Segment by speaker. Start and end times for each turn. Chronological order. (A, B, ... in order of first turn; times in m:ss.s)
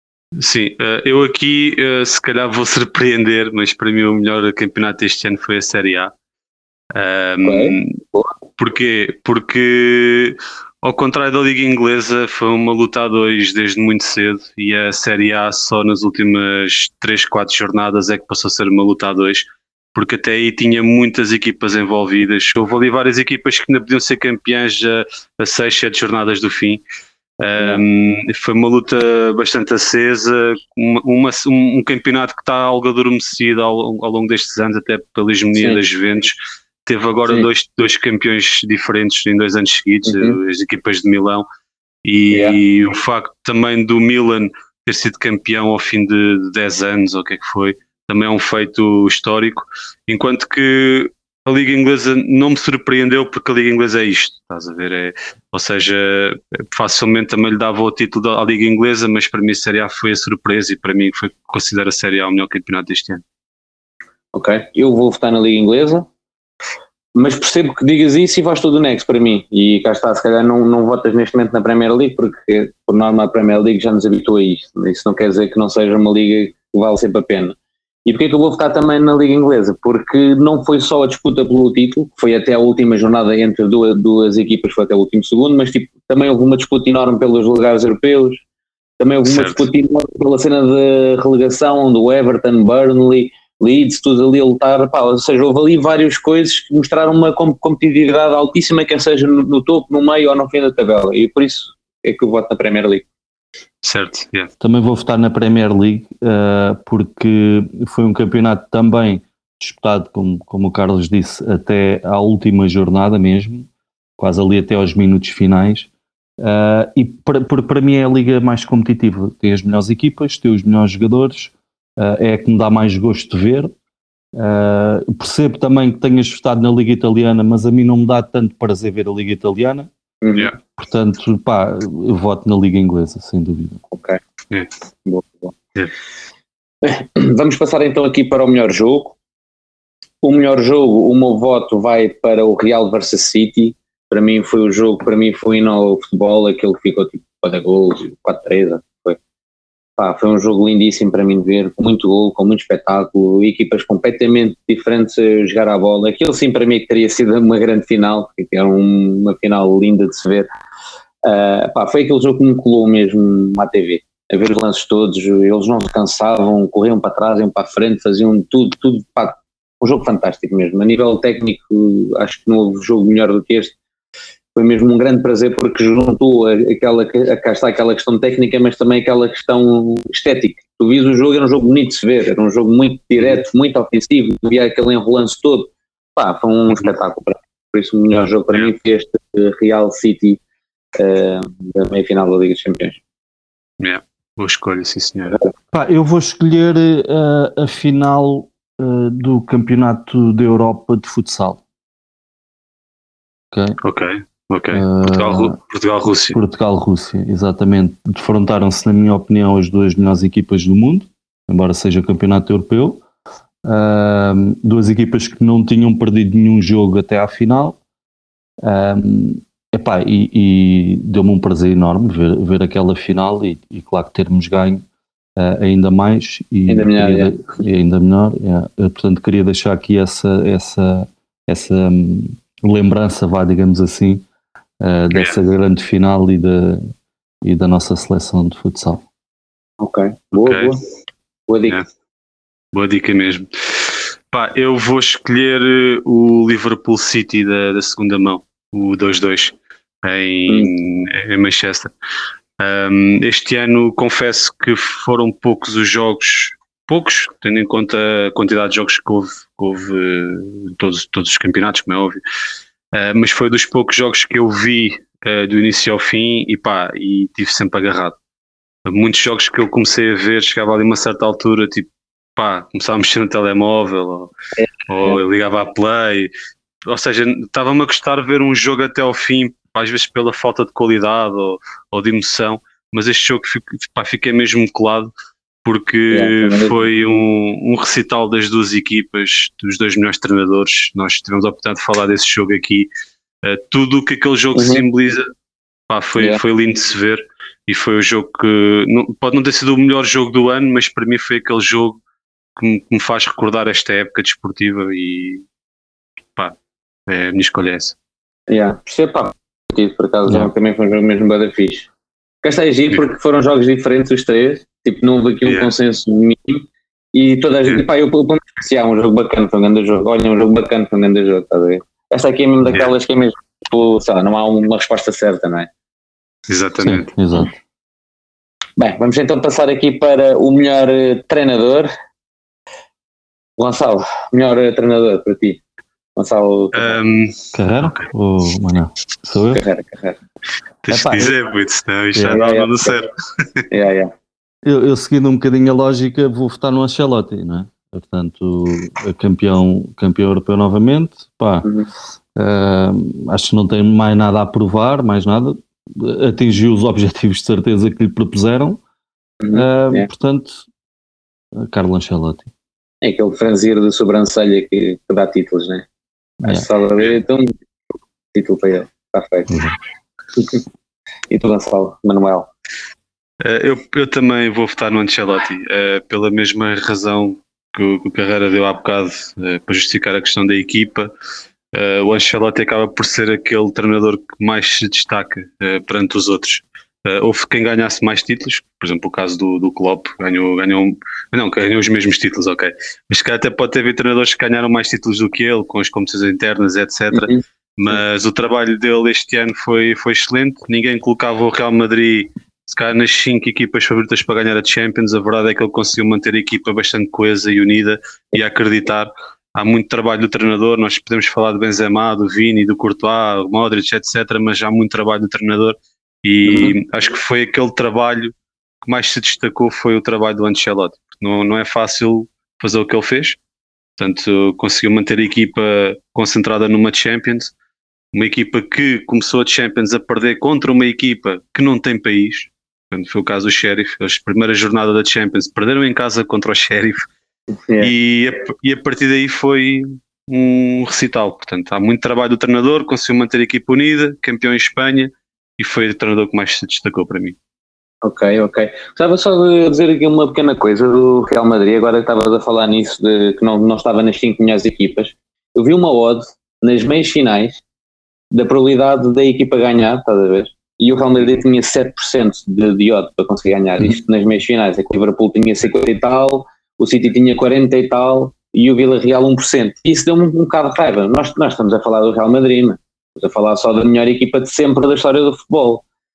0:00.4-0:06.1 A
0:07.0-0:08.0 A
0:07.4-0:08.3 B
0:08.6-0:26.8 A
0:27.4-0:41.5 A
0:27.6-0:27.8 B
0:40.1-0:40.4 B
0:42.0-1:03.2 A
0:42.3-0:42.6 B
1:04.3-1:06.1 B
1:07.2-1:28.4 B
1:29.0-1:43.0 B
1:29.2-1:29.7 A
1:43.8-1:44.5 A
1:44.6-2:03.7 C
2:04.4-2:09.9 C
2:10.2-2:10.5 B
2:10.7-2:13.8 C
2:13.9-2:14.2 B
2:15.1-2:15.5 B
2:16.8-2:19.2 B
2:20.2-2:29.2 B
2:30.0-2:40.5 B
2:41.2-2:53.8 B
2:54.6-3:10.4 B
3:11.0-3:13.0 B
3:13.8-3:15.4 A
3:15.7-3:21.6 C
3:23.5-3:23.8 C
3:23.8-3:26.4 A
3:24.7-3:25.6 C
3:26.3-3:33.0 C
3:33.6-3:37.8 C
3:38.6-3:44.8 C
3:45.4-3:54.2 C
3:46.7-3:47.5 B
3:54.8-3:56.9 C
3:57.4-3:59.0 C
3:59.8-4:00.8 B
4:00.4-4:00.8 A
4:01.5-4:01.8 B
4:02.7-4:11.9 A
4:10.5-4:10.7 B
4:12.6-4:22.2 A
4:22.9-4:28.2 A
4:28.9-4:34.3 A
4:34.6-4:35.2 B
4:34.9-4:36.3 A
4:36.9-4:45.1 A
4:45.6-4:52.9 A
4:46.1-4:46.7 B
4:53.4-4:55.3 A
4:54.6-4:54.8 B
4:55.9-5:02.0 A
5:02.6-5:05.4 A
5:07.1-5:08.0 A
5:08.5-5:11.9 B
5:12.4-5:25.7 B
5:15.4-5:15.7 A
5:26.5-5:27.1 A
5:26.8-5:27.6 C
5:28.8-5:31.9 B
5:33.6-5:35.6 B
5:36.2-5:37.0 B
5:36.7-5:37.4 A
5:37.5-5:39.6 C
5:39.5-5:40.2 B
5:40.8-5:43.1 A
5:40.9-5:41.4 C
5:42.2-5:42.4 C
5:42.3-5:43.0 B
5:43.7-5:44.1 B
5:44.6-5:51.7 C
5:52.4-5:58.8 C
5:59.4-6:00.1 B
5:59.5-6:00.6 C
6:01.6-6:02.5 C
6:03.0-6:05.8 B
6:06.4-6:07.5 B
6:08.3-6:09.5 B
6:09.5-6:09.8 C
6:11.3-6:12.5 B
6:13.4-6:21.1 A
6:21.7-7:03.4 A
6:37.1-6:38.0 B
6:56.5-6:56.8 B
7:04.0-7:07.5 A
7:08.1-7:17.1 A
7:17.8-7:27.4 A
7:28.0-7:37.6 B
7:38.3-7:55.8 B